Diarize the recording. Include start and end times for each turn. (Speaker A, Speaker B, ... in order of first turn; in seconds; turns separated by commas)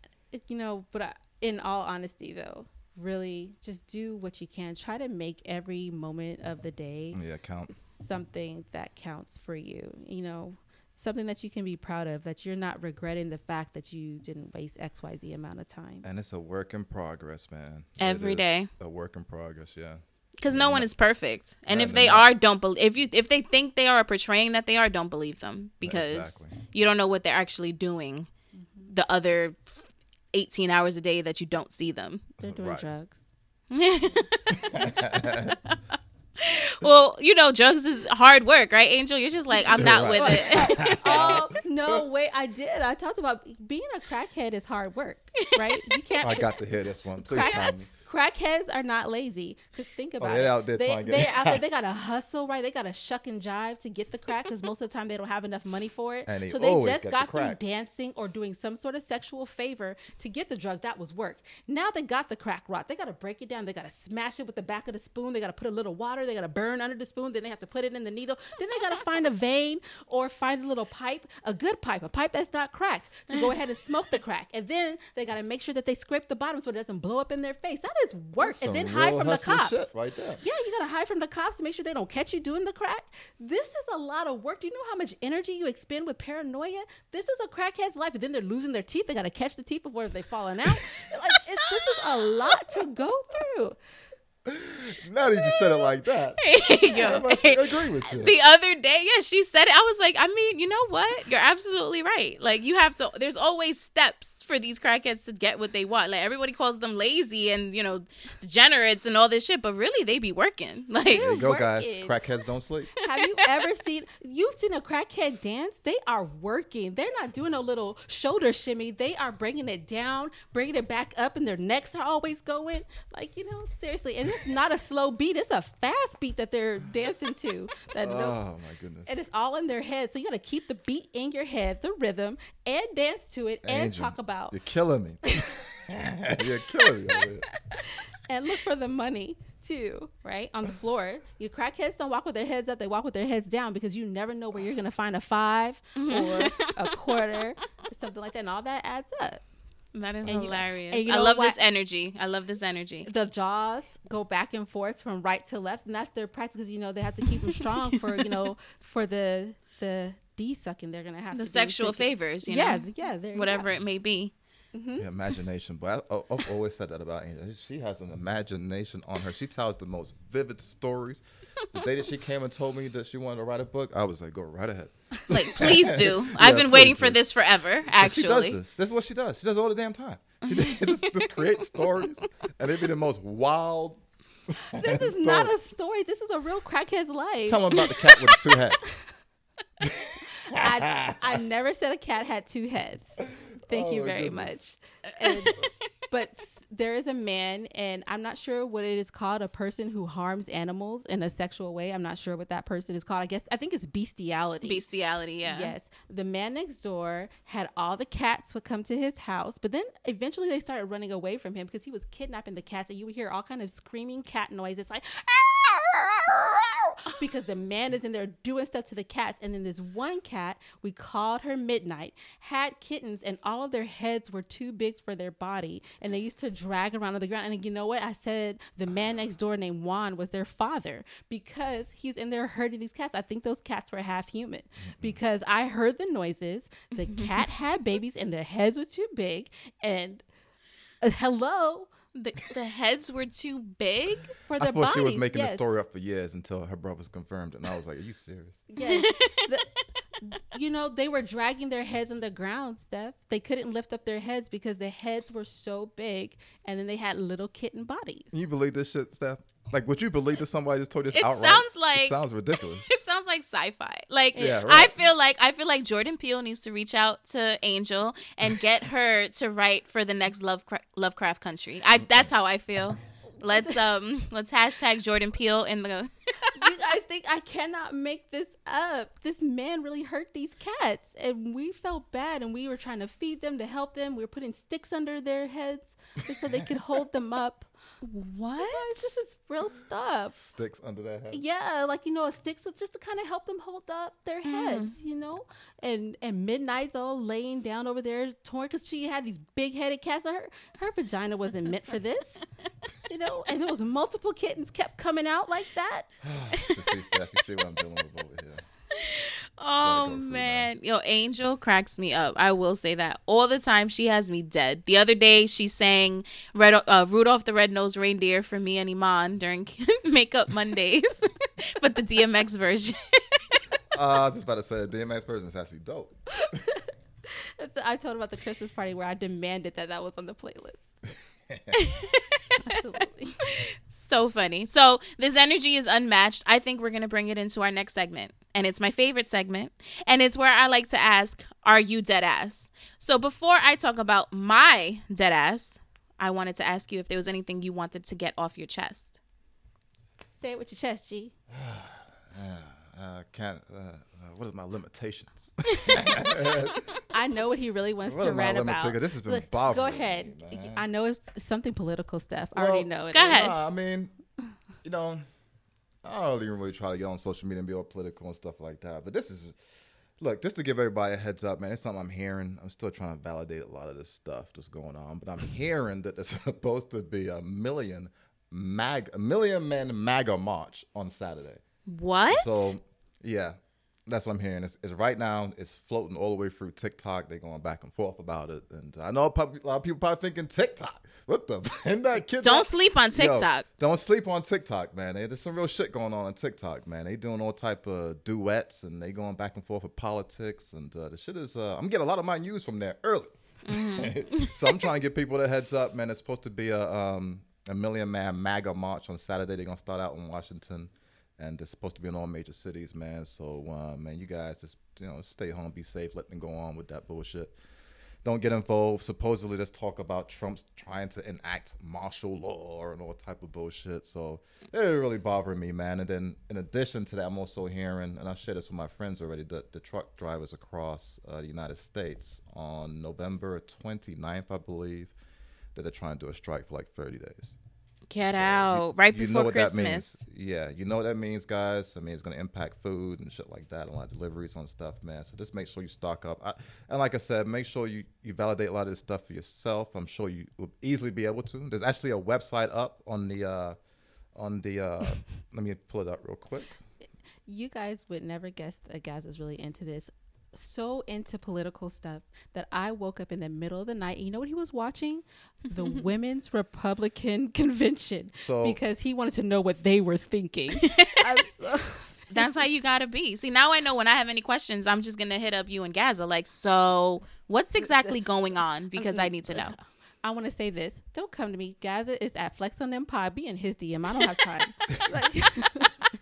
Speaker A: 0.3-16.1, Speaker B: 7.1-7.7, Speaker B: 16.0-20.9, Speaker C: 18.0-18.7, Speaker C: 20.4-28.3, Speaker B: 21.7-22.3, Speaker B: 25.8-26.6, Speaker C: 28.9-32.2, Speaker A: 32.4-33.2, Speaker B: 32.4-32.9, Speaker C: 33.7-34.7, Speaker B: 34.5-35.6, Speaker C: 35.3-35.8, Speaker C: 36.4-41.3, Speaker A: 39.6-46.5, Speaker B: 39.8-42.0, Speaker B: 46.2-47.9, Speaker A: 47.2-93.8, Speaker C: 47.4-47.7, Speaker B: 50.2-51.6, Speaker B: 56.3-57.6, Speaker B: 78.4-80.4, Speaker B: 94.5-98.3, Speaker C: 96.4-111.3, Speaker A: 111.1-112.2, Speaker B: 111.1-112.9, Speaker A: 113.0-128.4, Speaker B: 128.0-129.1, Speaker A: 129.1-134.6, Speaker B: 133.7-137.5, Speaker A: 138.2-149.4, Speaker C: 146.0-146.9, Speaker C: 149.9-153.1, Speaker A: 150.2-151.6, Speaker A: 153.1-163.7, Speaker C: 158.2-158.5, Speaker C: 161.3-164.3, Speaker A: 164.7-165.1, Speaker B: 165.0-171.2, Speaker B: 171.7-177.2, Speaker C: 175.3-178.6, Speaker B: 177.9-185.5, Speaker C: 180.5-182.2, Speaker A: 184.7-188.0, Speaker B: 187.5-188.9, Speaker B: 189.8-191.2, Speaker A: 190.5-204.8, Speaker B: 193.6-194.6, Speaker C: 195.2-195.7, Speaker C: 204.6-205.8, Speaker A: 205.4-240.2, Speaker B: 234.9-235.2, Speaker C: 237.1-237.4, Speaker A: 241.0-241.9, Speaker C: 242.2-244.3, Speaker A: 244.5-245.7, Speaker B: 244.6-248.6, Speaker A: 248.7-249.7, Speaker C: 248.8-249.8, Speaker A: 250.2-258.3, Speaker B: 258.3-262.9, Speaker C: 261.1-276.7, Speaker B: 264.4-265.0, Speaker B: 272.0-272.3, Speaker A: 273.5-273.8, Speaker A: 276.5-287.7, Speaker C: 288.0-289.2, Speaker A: 288.6-290.4, Speaker B: 290.4-291.4, Speaker A: 291.3-302.5, Speaker C: 294.4-294.9, Speaker A: 303.1-306.1, Speaker B: 306.2-308.6, Speaker C: 308.9-323.6, Speaker B: 309.8-310.7, Speaker B: 323.9-326.6, Speaker A: 326.5-326.8, Speaker A: 327.3-330.9, Speaker B: 331.5-331.8, Speaker C: 331.7-332.7, Speaker A: 332.6-333.4, Speaker C: 333.5-349.2, Speaker A: 350.4-351.3, Speaker B: 351.5-356.8, Speaker A: 357.1-363.5, Speaker B: 358.1-360.9, Speaker B: 362.6-364.1, Speaker C: 363.1-363.5, Speaker B: 364.8-365.2, Speaker B: 366.0-369.6, Speaker B: 370.2-381.6, Speaker C: 381.9-382.7, Speaker B: 382.3-383.6, Speaker B: 384.1-417.5, Speaker C: 392.4-393.7, Speaker C: 403.7-404.8, Speaker B: 418.2-435.1, Speaker B: 435.8-437.6, Speaker C: 438.1-440.2, Speaker B: 438.2-453.8, Speaker B: 454.4-456.8, Speaker A: 457.5-472.5, Speaker B: 468.4-468.8, Speaker C: 470.8-471.1, Speaker C: 472.3-479.8, Speaker A: 477.8-478.2, Speaker A: 479.0-486.0